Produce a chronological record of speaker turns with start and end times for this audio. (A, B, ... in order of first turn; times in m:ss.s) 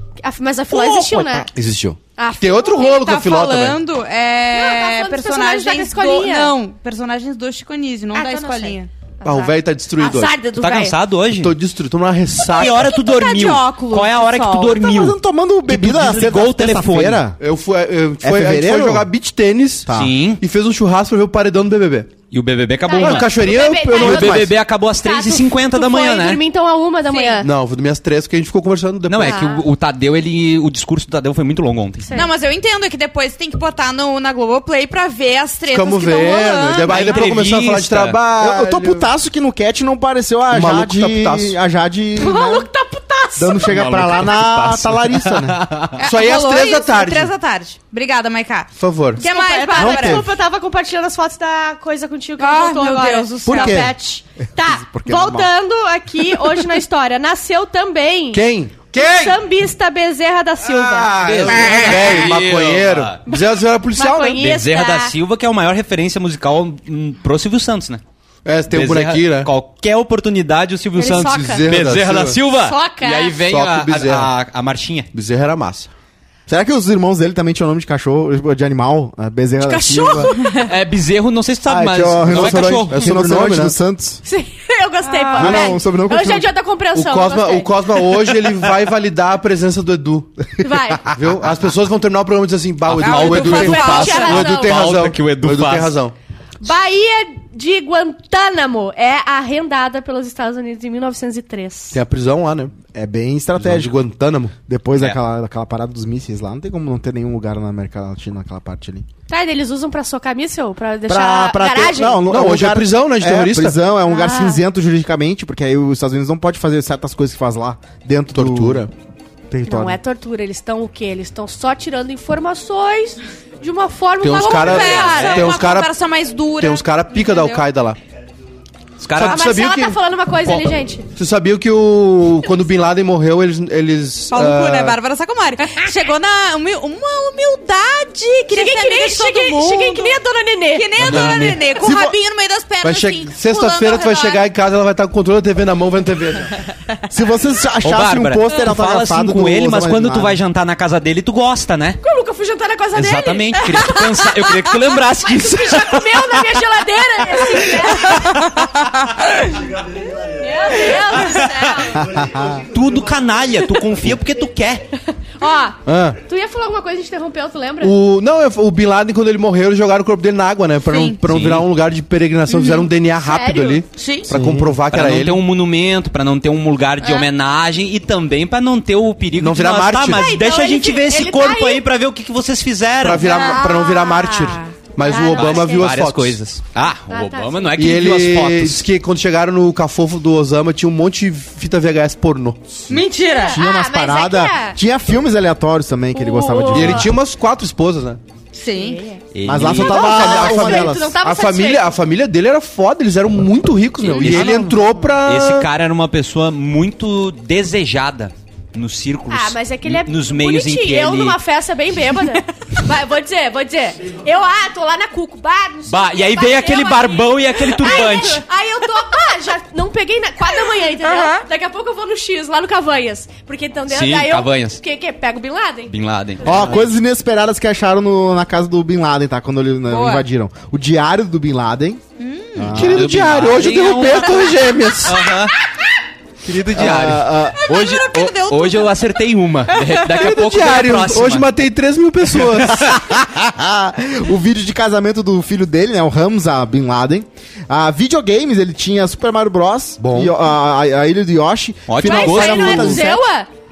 0:00.2-0:01.5 A
0:00.7-0:03.8 B
0:02.2-0:03.0 A
0:02.8-0:08.9 C
0:04.5-0:06.5 A
0:08.1-0:11.0 A
0:09.2-0:10.4 B
0:10.6-0:11.5 D
0:11.3-0:12.8 B
0:12.5-0:17.2 D
0:12.6-0:14.8 C
0:14.8-0:17.4 E
0:17.4-0:19.9 B
0:18.2-0:19.1 E
0:19.9-0:20.1 E
0:19.9-0:20.4 D
0:20.4-0:22.1 B
0:22.3-0:26.4 D
0:22.8-0:27.5 A
0:23.0-0:24.5 B
0:24.0-0:24.4 E
0:27.1-0:27.4 C
0:27.4-0:29.4 B
0:29.1-0:32.1 D
0:29.2-0:29.7 A
0:32.0-0:32.3 A
0:32.1-0:37.2 C
0:35.7-0:39.1 B
0:36.9-0:38.2 D
0:38.4-0:42.7 E
0:40.5-0:41.6 B
0:42.2-0:43.8 A
0:43.4-0:45.6 E
0:43.7-0:46.0 D
0:46.0-0:50.2 C
0:46.0-0:47.3 B
0:48.8-0:49.2 B
0:49.2-1:01.2 A
0:49.8-0:50.3 E
0:52.4-0:53.9 C
0:53.4-0:53.9 E
0:54.6-0:55.5 E
0:58.3-0:59.4 B
1:00.6-1:04.4 B
1:01.2-1:03.2 D
1:03.9-1:05.1 A
1:04.3-1:08.0 D
1:08.4-1:09.5 B
1:08.7-1:15.1 D
1:11.0-1:11.7 A
1:11.3-1:12.4 B
1:12.5-1:13.4 A
1:13.4-1:14.3 B
1:15.1-1:15.9 B
1:16.5-1:20.3 E
1:19.6-1:20.7 A
1:20.6-1:23.0 D
1:21.6-1:24.2 E
1:22.3-1:23.8 B
1:24.2-1:28.1 A
1:25.1-1:25.5 C
1:25.4-1:26.5 E
1:25.4-1:25.7 B
1:26.9-1:30.4 B
1:30.6-1:31.0 A
1:31.1-1:36.1 B
1:32.8-1:35.9 D
1:33.0-1:34.4 C
1:33.4-1:34.8 A
1:36.6-1:42.0 A
1:41.9-1:42.7 B
1:42.9-1:44.0 E
1:43.6-1:44.5 B
1:44.6-1:49.0 E
1:49.3-1:52.3 A
1:51.1-1:58.8 E
1:52.1-1:53.8 B
1:54.1-1:54.6 A
1:58.3-1:58.9 B
1:59.5-2:00.0 E
1:59.6-2:05.5 A
2:04.2-2:05.9 B
2:04.3-2:07.6 C
2:04.8-2:05.6 D
2:06.6-2:08.0 B
2:09.0-2:09.4 D
2:09.1-2:10.0 B
2:09.2-2:11.1 A
2:10.4-2:10.7 D
2:11.2-2:15.0 B
2:14.3-2:20.2 C
2:18.5-2:20.9 A
2:20.7-2:24.4 C
2:21.0-2:21.6 D
2:21.0-2:22.2 E
2:21.0-2:21.6 B
2:22.8-2:26.5 B
2:27.1-2:30.4 E
2:27.8-2:32.0 D
2:32.0-2:38.5 A
2:32.9-2:36.3 D
2:37.6-2:38.3 D
2:40.2-2:42.0 A
2:41.1-2:42.0 D
2:42.0-2:42.6 E
2:42.5-2:44.8 D
2:45.2-2:47.9 A
2:45.8-2:46.2 B
2:47.8-2:55.4 B
2:50.8-2:51.2 C
2:51.2-2:51.7 D
2:52.6-2:52.9 C
2:53.2-2:53.8 A
2:53.9-2:54.3 C
2:54.3-2:54.7 E
2:54.9-3:03.4 D
2:57.0-2:57.3 C
2:59.4-3:00.3 B
3:00.1-3:01.8 A
3:03.0-3:06.4 B
3:03.2-3:05.9 A
3:03.2-3:03.6 C
3:05.0-3:08.8 D
3:07.1-3:07.8 A
3:07.8-3:12.7 B
3:12.9-3:14.8 A
3:12.9-3:13.6 C
3:13.5-3:17.1 E
3:16.1-3:17.1 A
3:16.7-3:18.2 B
3:18.5-3:19.0 C
3:18.7-3:21.9 A
3:19.3-3:20.2 D
3:19.4-3:21.1 E
3:19.7-3:25.7 B
3:24.0-3:31.4 D
3:24.2-3:24.5 C
3:29.3-3:45.9 A
3:35.9-3:38.4 D
3:40.5-3:41.4 C
3:43.9-3:44.8 D
3:45.9-3:46.8 D
3:46.4-3:52.0 E
3:49.9-3:50.2 C
3:52.2-3:52.8 C
3:52.6-3:53.2 E
3:52.7-3:55.2 B
3:52.7-3:55.6 D
3:56.4-4:01.5 D
3:56.7-3:57.6 E
3:57.5-3:59.2 C
3:59.7-4:00.2 C
4:00.1-4:02.8 B
4:02.4-4:03.1 D
4:02.8-4:13.2 E
4:10.0-4:10.3 B
4:11.9-4:13.1 D
4:12.0-4:13.5 A